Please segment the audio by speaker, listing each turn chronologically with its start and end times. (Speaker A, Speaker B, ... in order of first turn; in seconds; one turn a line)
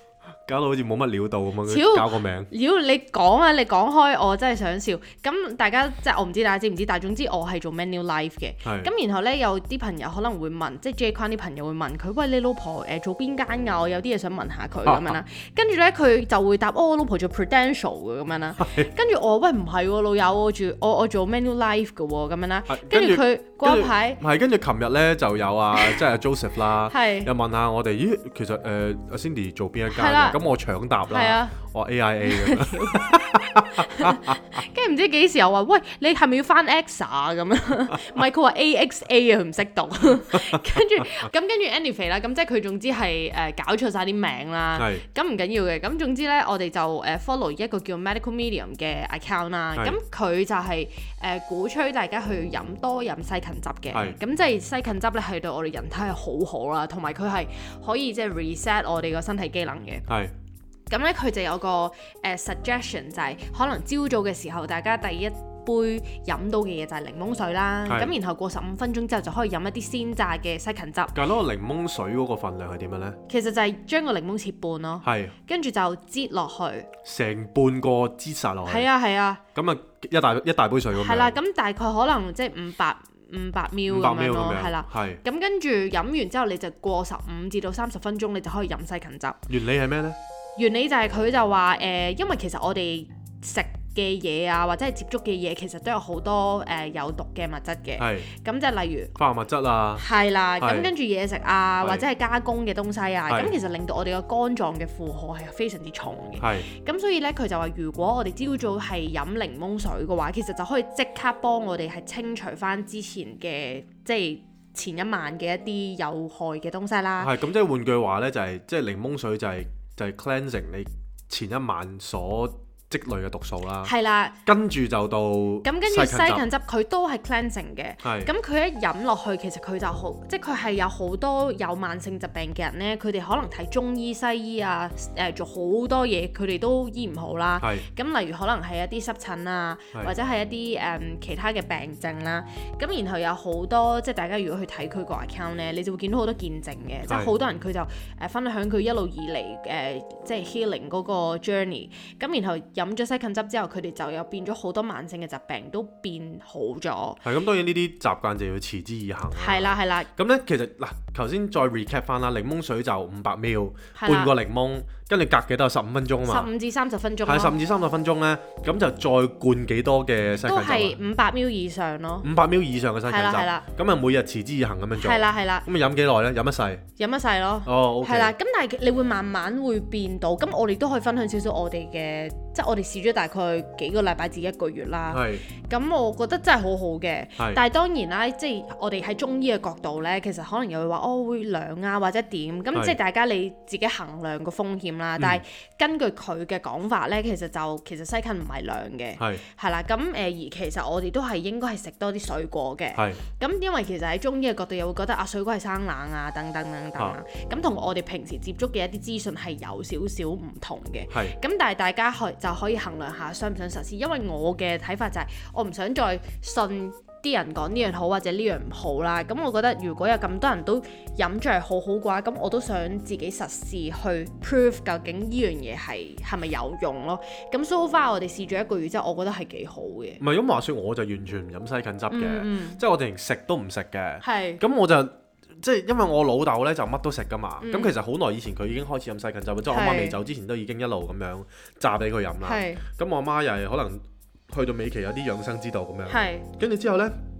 Speaker A: 0.5-2.5
Speaker B: 1.6-24.2
Speaker A: 8.6-8.9
Speaker A: 14.8-15.2
Speaker A: 18.6-18.9
Speaker A: 22.7-34.6
Speaker B: 26.9-27.3
Speaker B: 29.9-30.4
Speaker B: 31.1-31.5
Speaker B: 32.2-60.0
Speaker A: 40.3-41.2
Speaker A: 44.8-45.0
Speaker A: 53.9-54.2
Speaker A: 60.1-60.3
Speaker B: 60.9-71.2
Speaker A: 67.8-68.1
Speaker A: 71.1-73.2
Speaker B: 73.3-76.9
Speaker A: 75.0-75.3
Speaker A: 77.0-78.9
Speaker B: 78.7-79.4
Speaker A: 79.5-81.3
Speaker B: 80.9-89.4
Speaker A: 83.9-85.2
Speaker A: 89.5-90.2
Speaker B: 90.5-99.1
Speaker A: 98.0-98.3
Speaker A: 99.2-100.1
Speaker B: 100.0-117.3
Speaker A: 100.6-100.9
Speaker A: 101.8-102.1
Speaker A: 103.3-103.5
Speaker A: 106.4-106.7
Speaker A: 117.2-123.9
Speaker B: 123.8-124.4
Speaker A: 124.4-126.4
Speaker B: 125.6-157.2
Speaker A: 128.0-128.3
Speaker A: 137.6-137.8
Speaker A: 147.1-147.3
Speaker A: 157.2-166.5
Speaker B: 159.3-160.1
Speaker B: 164.0-164.3
Speaker B: 166.2-167.6
Speaker A: 167.2-171.0
Speaker B: 170.4-172.3
Speaker A: 172.2-176.8
Speaker B: 173.1-173.7
Speaker B: 174.9-175.7
Speaker B: 177.0-230.2
Speaker A: 177.6-178.3
Speaker A: 185.1-185.4
Speaker A: 199.2-199.4
Speaker A: 202.9-203.2
Speaker A: 211.1-211.4
Speaker A: 230.2-247.1
Speaker B: 232.1-232.8
Speaker B: 234.2-234.6
Speaker B: 237.6-237.9
Speaker B: 239.7-240.2
Speaker B: 242.4-242.8
Speaker B: 246.1-246.5